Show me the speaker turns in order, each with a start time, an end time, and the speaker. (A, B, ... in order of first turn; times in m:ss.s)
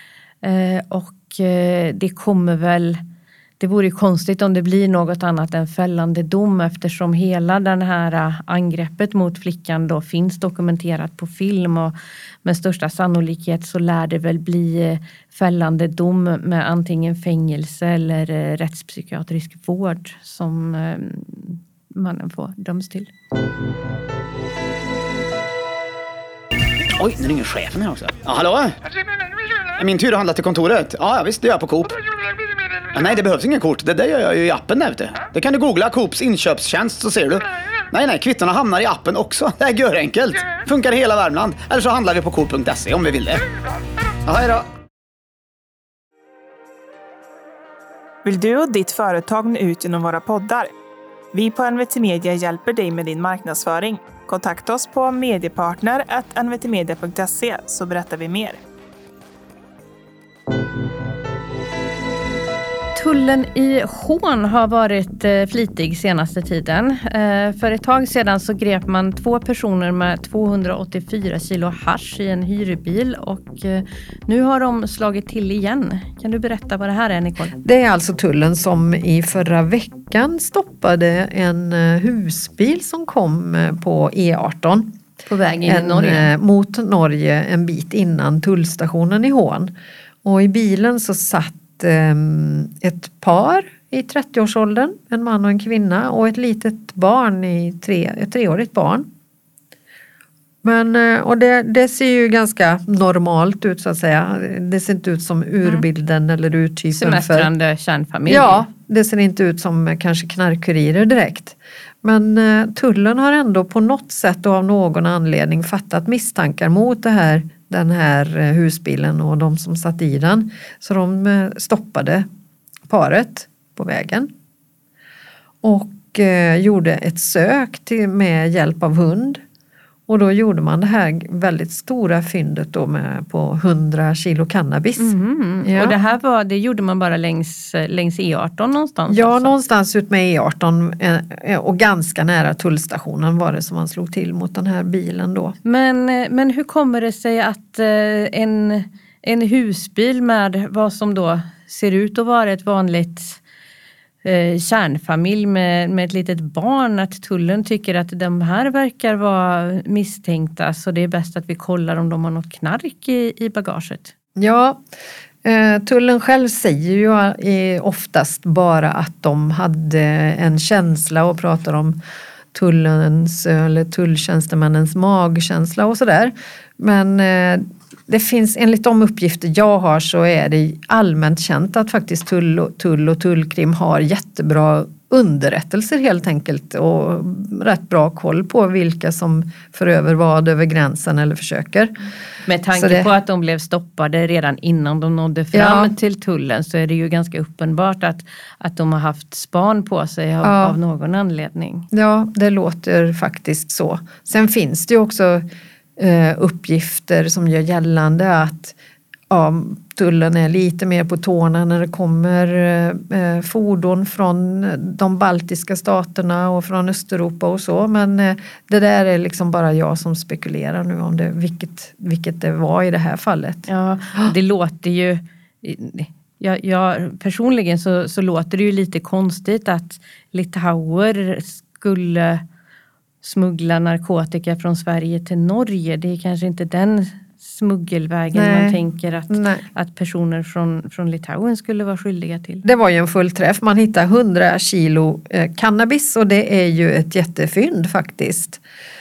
0:00.4-0:03.0 A
0:03.6-0:23.1 A
0:27.0-0:28.8 B
0:29.8-0:32.0 B
0:32.9-0:43.4 B
0:44.3-0:44.7 B
0:48.2-0:50.7 C
0:51.3-0:58.6 C
1:03.0-1:17.6 A
1:17.6-1:25.0 D
1:25.3-1:26.3 A
1:25.7-1:29.7 D
1:30.2-1:39.1 D
1:40.6-1:47.5 D
1:46.9-1:48.6 A
1:48.3-2:02.3 D
2:02.9-2:04.3 D
2:05.6-2:09.4 D
2:10.1-2:15.1 D
2:15.0-2:19.6 A
2:15.6-2:16.0 D
2:19.1-2:25.6 D
2:25.6-2:33.4 A
2:34.2-2:44.1 A
2:44.4-2:44.8 D
2:45.4-2:52.0 D
2:52.5-3:11.9 D
3:12.5-3:21.9 A
3:12.7-3:13.1 D
3:15.5-3:15.9 D
3:20.4-3:20.8 D
3:21.9-3:25.4 D
3:26.0-3:28.8 D
3:29.3-3:43.7 D
3:43.7-3:52.4 A
3:53.2-4:02.6 A
3:58.3-3:59.6 D
4:02.6-4:08.6 D